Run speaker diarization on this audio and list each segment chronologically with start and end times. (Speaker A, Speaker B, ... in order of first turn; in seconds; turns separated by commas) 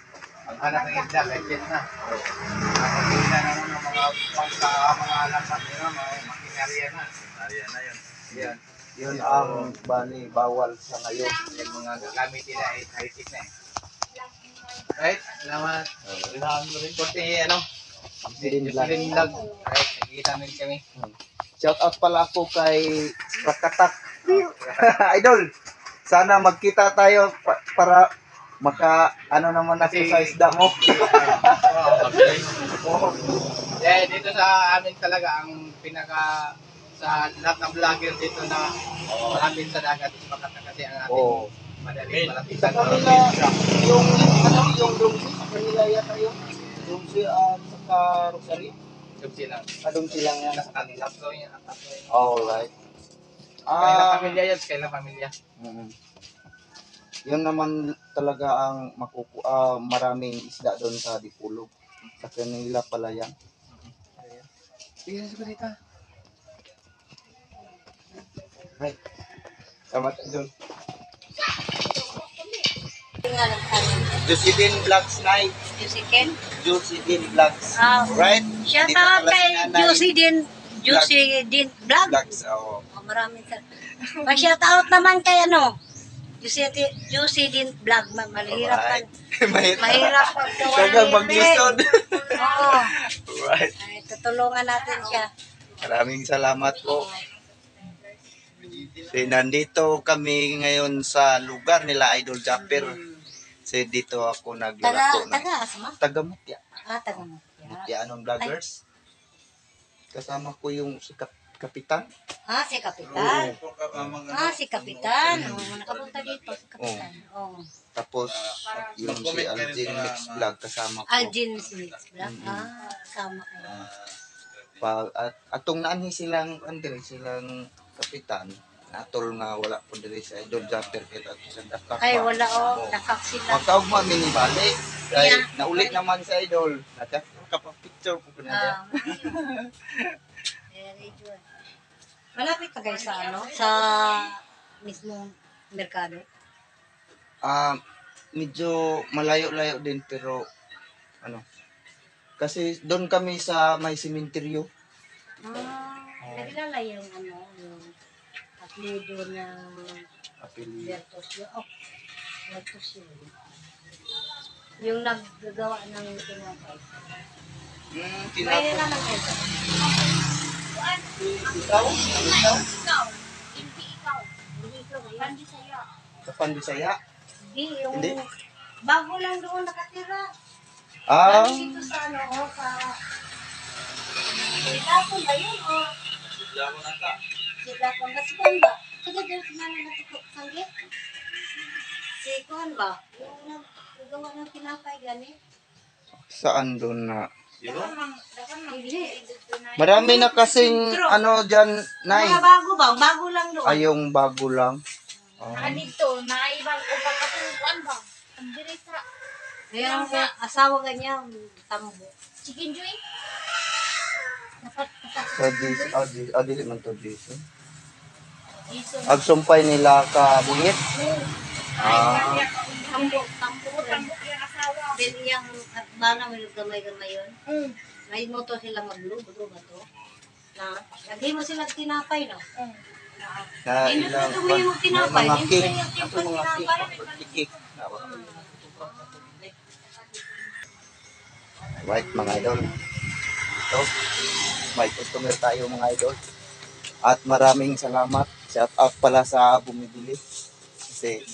Speaker A: 0.5-1.9, Speaker A: 2.8-7.1, Speaker B: 7.2-8.0, Speaker A: 8.3-9.6, Speaker C: 8.3-11.4, Speaker A: 11.4-13.5, Speaker A: 15.0-17.6, Speaker C: 16.1-16.4, Speaker C: 18.3-19.2, Speaker A: 18.4-20.8, Speaker C: 20.9-25.5, Speaker A: 24.3-24.8, Speaker C: 26.1-28.1, Speaker C: 28.6-33.4, Speaker A: 29.8-32.2, Speaker B: 32.1-32.4, Speaker A: 33.8-38.7, Speaker B: 39.1-39.4, Speaker A: 39.2-43.4, Speaker C: 41.1-41.5, Speaker B: 42.1-42.5, Speaker C: 42.6-43.2, Speaker C: 43.8-48.7, Speaker A: 46.4-47.0, Speaker A: 49.2-52.7, Speaker C: 49.8-50.8, Speaker C: 52.1-52.7, Speaker C: 53.7-54.4, Speaker A: 53.8-55.3, Speaker C: 55.6-55.9, Speaker C: 57.3-61.7, Speaker C: 62.2-63.3, Speaker A: 63.7-64.5, Speaker A: 65.1-65.7, Speaker C: 65.1-65.4, Speaker C: 69.9-70.5, Speaker D: 73.2-74.1, Speaker C: 74.2-75.6, Speaker D: 75.7-76.4, Speaker C: 76.6-80.1, Speaker D: 77.8-82.4, Speaker C: 80.9-81.2, Speaker C: 82.0-82.8, Speaker D: 82.9-83.6, Speaker C: 84.1-84.6, Speaker D: 84.2-85.7, Speaker D: 86.4-89.1, Speaker C: 88.5-93.7, Speaker D: 89.8-91.8, Speaker D: 92.4-92.9, Speaker D: 93.8-95.3, Speaker C: 95.8-97.1, Speaker C: 99.0-103.0, Speaker D: 102.5-103.2, Speaker C: 103.7-106.6, Speaker D: 104.8-106.0, Speaker D: 106.9-107.9, Speaker C: 107.1-108.8, Speaker C: 110.1-112.1, Speaker D: 112.5-113.5, Speaker C: 113.1-114.2, Speaker B: 113.1-116.8, Speaker D: 114.3-117.7, Speaker C: 115.3-115.7, Speaker C: 116.8-117.1, Speaker C: 118.0-121.4, Speaker B: 118.6-120.5, Speaker D: 121.1-123.8, Speaker C: 122.2-122.7, Speaker B: 123.7-124.1, Speaker C: 124.8-133.0, Speaker D: 132.0-134.0, Speaker C: 133.5-139.8, Speaker D: 135.1-136.0, Speaker D: 138.5-139.4, Speaker D: 140.7-141.4, Speaker D: 142.3-146.2, Speaker C: 147.4-147.8, Speaker C: 148.3-150.4, Speaker C: 152.4-154.7, Speaker D: 155.4-157.9, Speaker C: 156.2-156.6, Speaker D: 158.6-160.0, Speaker C: 160.4-161.0, Speaker D: 160.8-161.7, Speaker D: 162.5-163.3, Speaker D: 164.8-167.2, Speaker C: 167.9-168.9, Speaker D: 168.4-169.7, Speaker C: 171.2-172.6, Speaker D: 171.6-172.5, Speaker E: 172.9-174.3, Speaker D: 174.5-175.4, Speaker E: 175.2-175.8, Speaker C: 176.3-177.0, Speaker D: 177.4-178.2, Speaker C: 177.9-178.2, Speaker D: 178.8-180.2, Speaker C: 181.1-181.9, Speaker D: 181.2-183.0, Speaker D: 184.6-185.9, Speaker D: 187.6-190.7, Speaker D: 192.2-195.3, Speaker C: 196.2-197.2, Speaker E: 197.7-200.1, Speaker D: 198.7-199.2, Speaker C: 199.8-202.4, Speaker D: 199.9-201.2, Speaker D: 202.1-203.8, Speaker C: 203.7-204.8, Speaker D: 205.2-205.8, Speaker C: 205.4-205.9, Speaker E: 205.6-209.0, Speaker D: 209.7-212.1, Speaker E: 209.8-210.3, Speaker E: 212.4-213.0, Speaker D: 214.7-215.3, Speaker C: 215.3-217.4, Speaker E: 215.6-215.9, Speaker E: 218.7-219.2, Speaker C: 219.1-220.8, Speaker E: 220.4-223.3, Speaker C: 221.8-222.5, Speaker D: 221.8-224.1, Speaker E: 223.8-224.9, Speaker D: 224.9-227.3, Speaker E: 227.5-227.8, Speaker D: 228.1-229.8, Speaker D: 230.6-232.4, Speaker D: 233.2-237.1, Speaker C: 233.7-238.2, Speaker D: 238.0-239.4, Speaker C: 241.8-242.7, Speaker D: 241.9-242.8, Speaker C: 244.7-246.2, Speaker C: 247.1-250.2, Speaker C: 250.9-251.1